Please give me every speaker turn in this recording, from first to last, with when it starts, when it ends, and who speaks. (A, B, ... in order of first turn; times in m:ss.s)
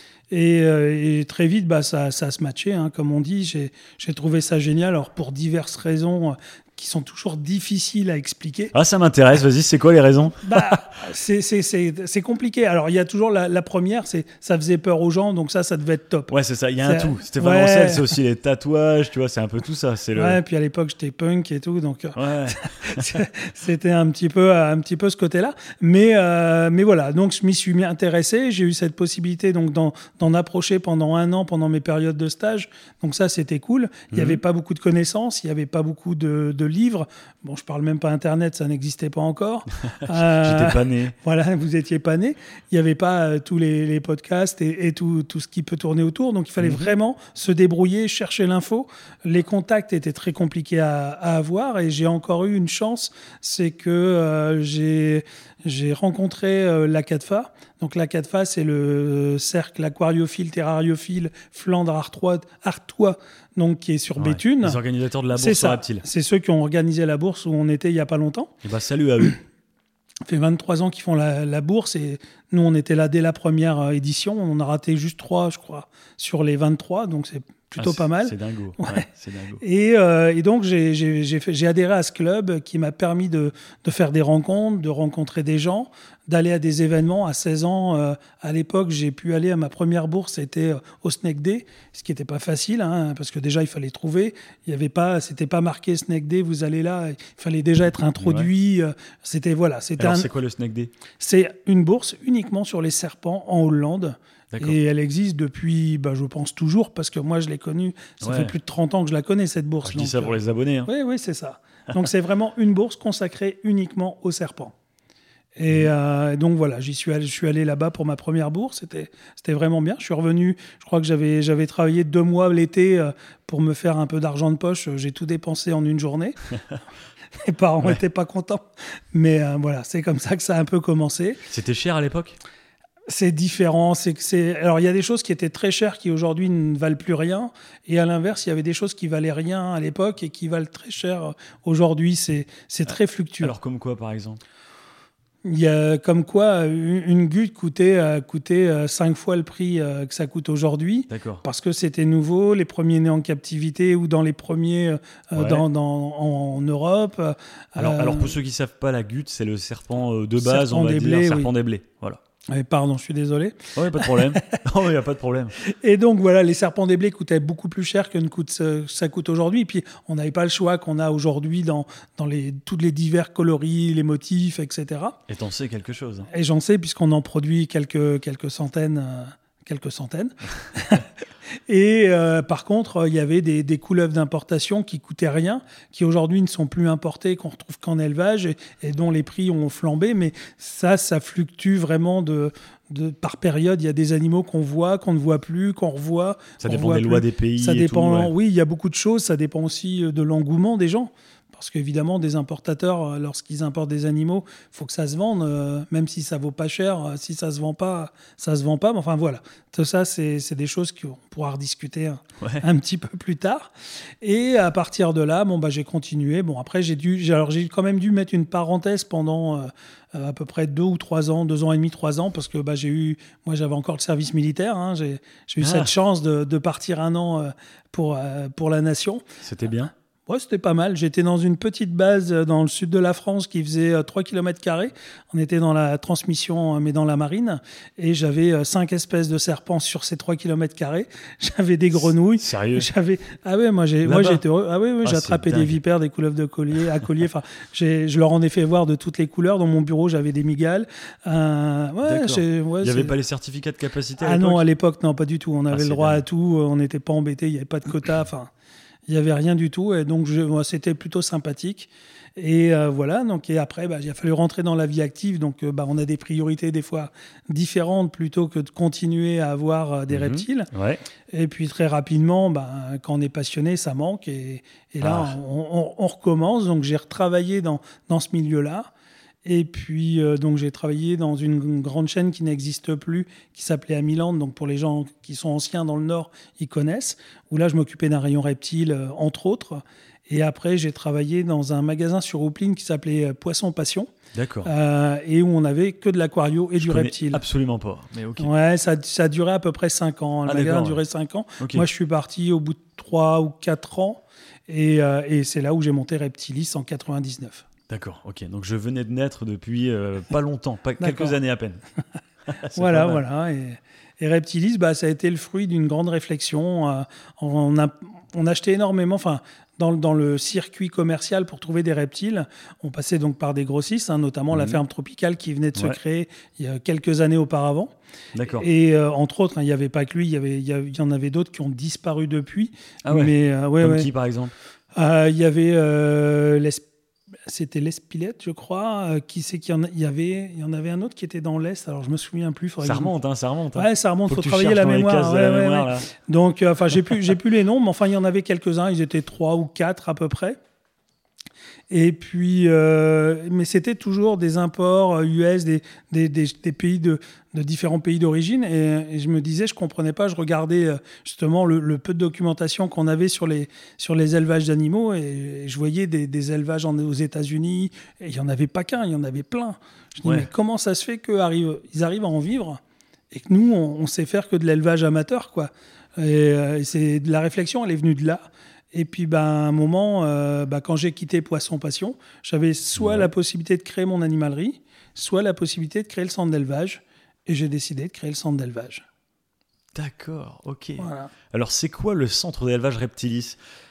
0:00.3-0:08.7 A
0:08.7-0:10.8 B
0:10.4-0:16.3 A
0:16.3-0:20.4 B
0:16.8-0:18.1 A
0:20.2-1:04.8 A
0:22.1-0:23.1 B
0:34.1-0:34.4 B
0:39.9-0:41.1 B
0:46.6-0:46.9 B
1:04.2-1:06.0 B
1:05.3-1:08.5 A
1:08.6-1:09.4 B
1:10.2-1:19.0 A
1:17.8-1:19.6 B
1:19.6-1:40.3 A
1:38.2-1:38.5 B
1:40.0-1:40.9 B
1:41.2-1:50.3 A
1:44.5-1:44.8 B
1:48.2-1:48.5 B
1:49.8-1:50.9 B
1:50.8-1:54.7 A
1:55.6-2:06.4 A
2:07.4-2:11.4 A
2:11.5-2:12.4 B
2:13.1-2:23.5 A
2:22.9-2:24.4 B
2:25.4-2:38.4 A
2:31.1-2:31.4 B
2:35.3-2:35.6 B
2:37.8-2:42.2 B
2:40.4-2:41.5 A
2:42.5-2:44.4 A
2:43.7-2:45.6 B
2:45.6-2:55.2 A
2:55.3-2:56.3 B
2:56.3-3:01.1 A
3:01.7-3:49.2 A
3:16.6-3:18.3 B
3:45.6-3:45.9 B
3:49.4-3:49.9 B
3:50.3-4:13.2 A
4:02.4-4:02.9 B
4:04.0-4:04.4 B
4:05.0-4:05.8 B
4:12.0-4:14.6 B
4:14.2-4:18.5 A
4:15.7-4:16.2 B
4:19.1-4:30.7 A
4:30.1-4:31.0 B
4:31.3-4:38.9 A
4:35.0-4:35.3 B
4:39.4-4:54.1 A
4:54.3-4:54.7 B
4:54.6-4:57.4 A
4:56.8-4:58.5 B
4:58.4-5:07.6 A
5:00.4-5:01.0 B
5:01.6-5:01.8 B
5:07.9-5:11.8 B
5:11.0-5:11.4 A
5:12.5-5:13.2 B
5:12.7-5:27.9 A
5:24.5-5:24.8 B
5:28.3-5:28.6 B
5:28.6-5:34.1 A
5:33.0-5:34.5 B
5:34.9-5:36.9 A
5:37.4-5:43.1 A
5:42.8-5:46.1 B
5:43.7-5:50.6 A
5:51.9-6:29.0 A
6:23.0-6:23.3 B
6:29.9-6:33.6 B
6:31.0-6:31.3 A